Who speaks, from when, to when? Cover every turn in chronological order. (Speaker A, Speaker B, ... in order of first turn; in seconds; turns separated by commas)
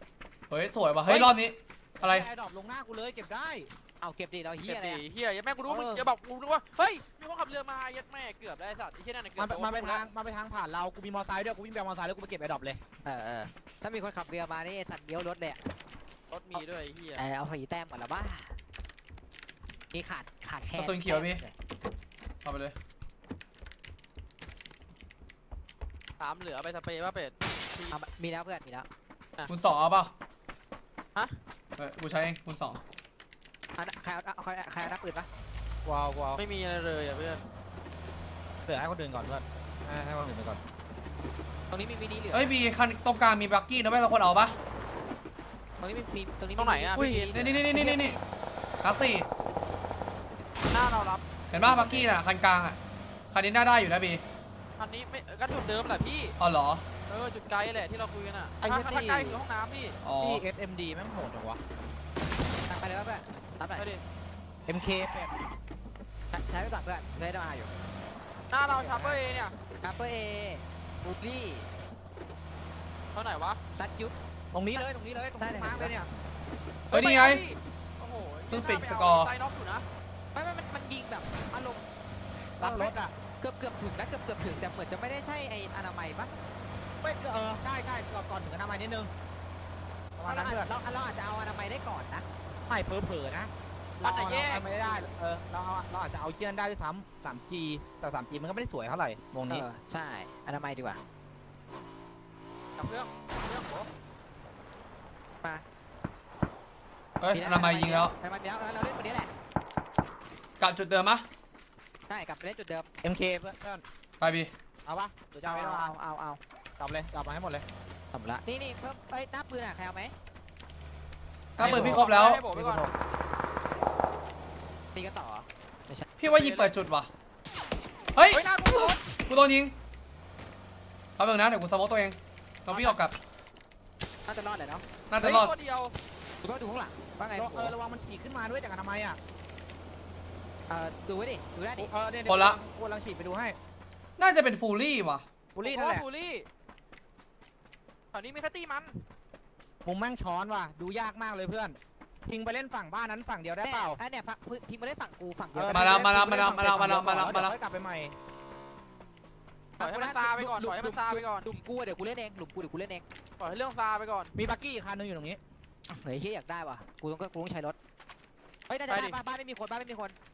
Speaker A: 0.5-2.2, Speaker B: 1.1-1.4, Speaker B: 2.0-3.7, Speaker C: 4.0-5.0, Speaker D: 4.6-10.0, Speaker B: 5.7-6.1, Speaker B: 9.4-12.8, Speaker C: 13.0-15.6, Speaker D: 16.3-17.2, Speaker C: 17.2-18.5, Speaker C: 19.9-21.5, Speaker A: 20.8-21.4, Speaker A: 22.4-22.7, Speaker D: 26.2-27.9, Speaker C: 27.9-28.9, Speaker A: 29.5-30.1, Speaker A: 31.8-32.8, Speaker C: 33.8-35.3, Speaker B: 35.8-36.4, Speaker D: 36.4-37.4, Speaker B: 38.6-40.6, Speaker C: 41.7-42.5, Speaker A: 42.3-44.5, Speaker C: 45.8-48.2, Speaker D: 46.6-47.3, Speaker B: 46.9-47.7, Speaker A: 47.3-48.2, Speaker A: 48.8-49.3, Speaker D: 50.7-51.2, Speaker A: 51.5-52.8, Speaker B: 51.5-52.1, Speaker A: 53.3-54.2, Speaker D: 54.8-56.4, Speaker A: 56.4-56.8, Speaker D: 57.1-60.0, Speaker B: 58.6-59.4, Speaker A: 60.0-60.4, Speaker B: 60.2-61.6, Speaker C: 62.7-63.8, Speaker D: 63.8-64.0, Speaker B: 64.7-65.3, Speaker C: 66.3-67.7, Speaker D: 68.5-69.5, Speaker B: 68.7-69.2, Speaker C: 69.8-71.7, Speaker D: 73.1-73.6, Speaker C: 73.7-74.1, Speaker B: 74.5-76.1, Speaker C: 75.4-75.9, Speaker D: 76.9-79.8, Speaker A: 76.9-77.4, Speaker A: 78.5-79.3, Speaker C: 80.3-81.9, Speaker B: 82.6-83.1, Speaker C: 82.6-86.3, Speaker B: 87.0-89.1, Speaker B: 90.2-90.7, Speaker C: 90.2-92.2, Speaker B: 92.7-99.7, Speaker D: 94.0-95.0, Speaker C: 99.5-101.0, Speaker D: 102.8-103.9, Speaker A: 107.2-108.1, Speaker C: 107.3-109.3, Speaker A: 110.6-111.2, Speaker C: 112.1-112.9, Speaker B: 113.0-113.8, Speaker A: 114.2-114.5, Speaker B: 114.8-115.9, Speaker C: 115.5-116.4, Speaker B: 116.8-117.6, Speaker C: 118.1-120.1, Speaker A: 121.6-122.4, Speaker D: 121.6-122.9, Speaker B: 121.6-122.9, Speaker C: 124.9-126.1, Speaker A: 126.2-127.1, Speaker D: 126.2-126.7, Speaker A: 128.1-129.7, Speaker D: 128.3-129.0, Speaker A: 131.2-133.2, Speaker C: 132.7-133.0, Speaker C: 134.2-134.8, Speaker A: 135.1-135.5, Speaker D: 135.2-135.9, Speaker C: 136.4-137.7, Speaker B: 137.3-139.2, Speaker C: 140.7-141.9, Speaker B: 141.8-143.6, Speaker A: 142.3-142.6, Speaker A: 144.2-145.2, Speaker B: 145.5-146.0, Speaker D: 145.6-146.4, Speaker D: 148.1-149.0, Speaker B: 149.8-154.0, Speaker C: 153.6-156.4, Speaker B: 155.5-158.1, Speaker A: 155.7-157.5, Speaker C: 159.8-163.0, Speaker D: 159.8-161.5, Speaker D: 163.4-164.3, Speaker B: 164.3-165.4, Speaker C: 165.9-167.8, Speaker C: 168.7-170.2, Speaker D: 168.9-169.2